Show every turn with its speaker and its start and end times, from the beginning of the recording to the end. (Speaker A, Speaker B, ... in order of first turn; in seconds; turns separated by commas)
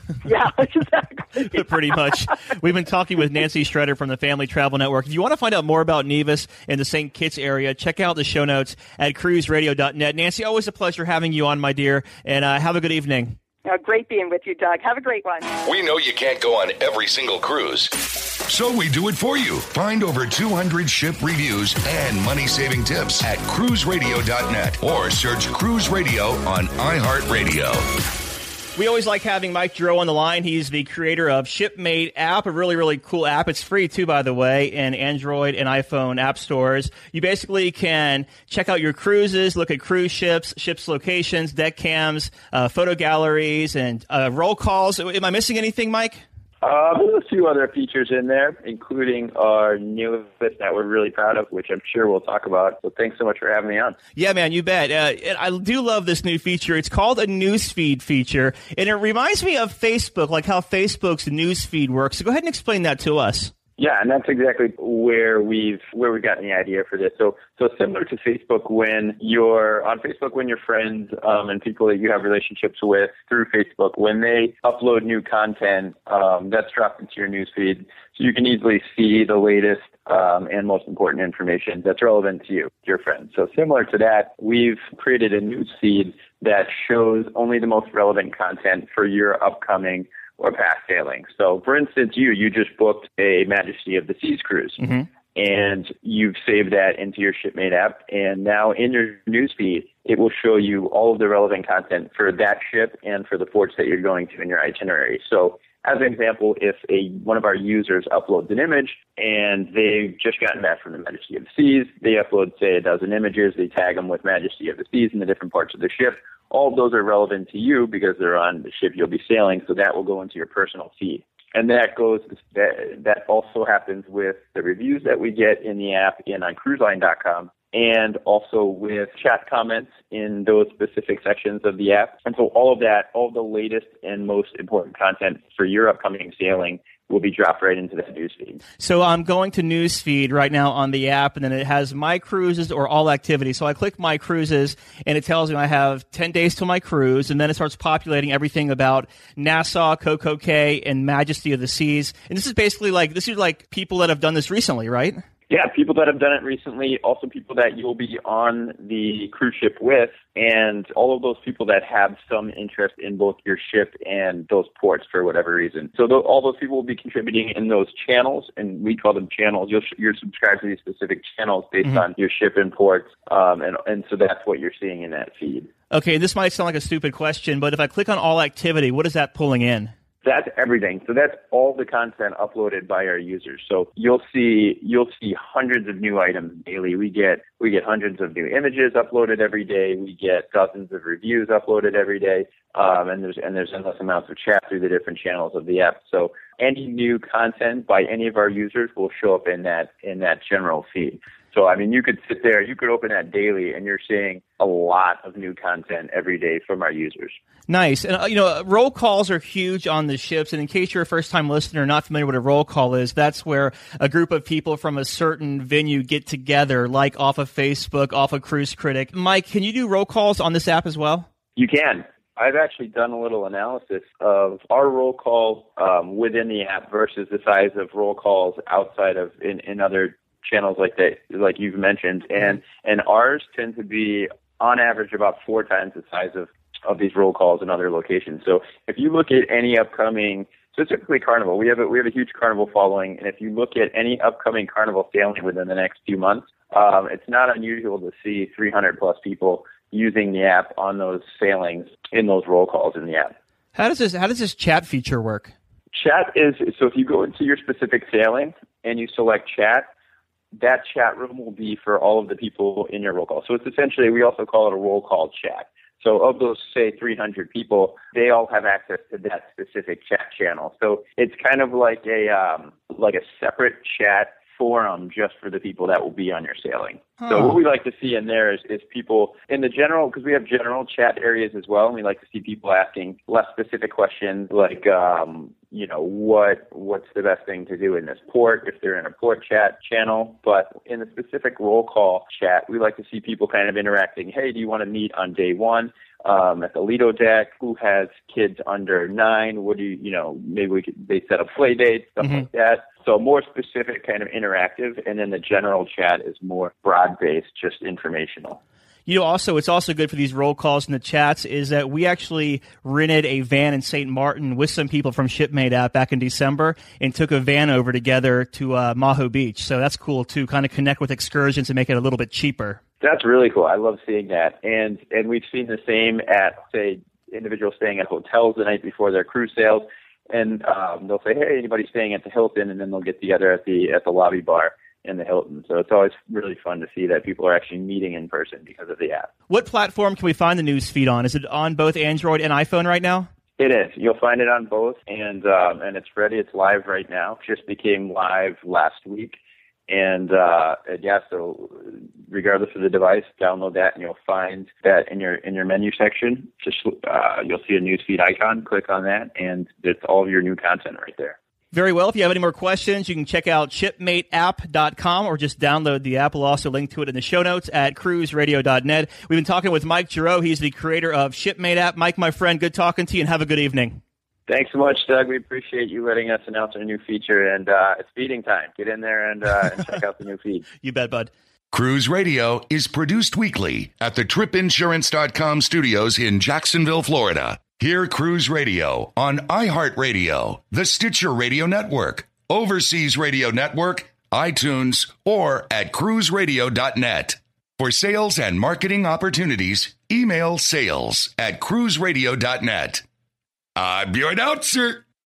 Speaker A: 0.2-2.1, Speaker B: 1.4-13.4, Speaker A: 13.6-15.5, Speaker C: 15.6-17.9, Speaker C: 18.5-27.8, Speaker B: 28.8-46.2, Speaker D: 46.6-54.0, Speaker B: 54.1-63.5, Speaker D: 63.8-94.8, Speaker B: 94.8-95.1, Speaker D: 95.3-138.6, Speaker B: 138.8-155.2, Speaker D: 155.5-175.7, Speaker B: 175.9-179.9, Speaker D: 180.2-207.3, Speaker B: 207.7-221.3, Speaker D: 221.6-253.3, Speaker B: 253.7-255.5, Speaker D: 255.9-259.9, Speaker D: 260.6-308.6, Speaker B: 277.2-277.6, Speaker B: 302.2-302.5, Speaker B: 309.1-322.8, Speaker D: 323.0-339.3, Speaker B: 339.5-343.3, Speaker D: 343.6-349.4, Speaker D: 349.9-361.4, Speaker B: 361.7-374.0, Speaker D: 374.5-380.6, Speaker B: 380.8-381.3, Speaker C: 381.7-403.0, Speaker C: 403.8-405.0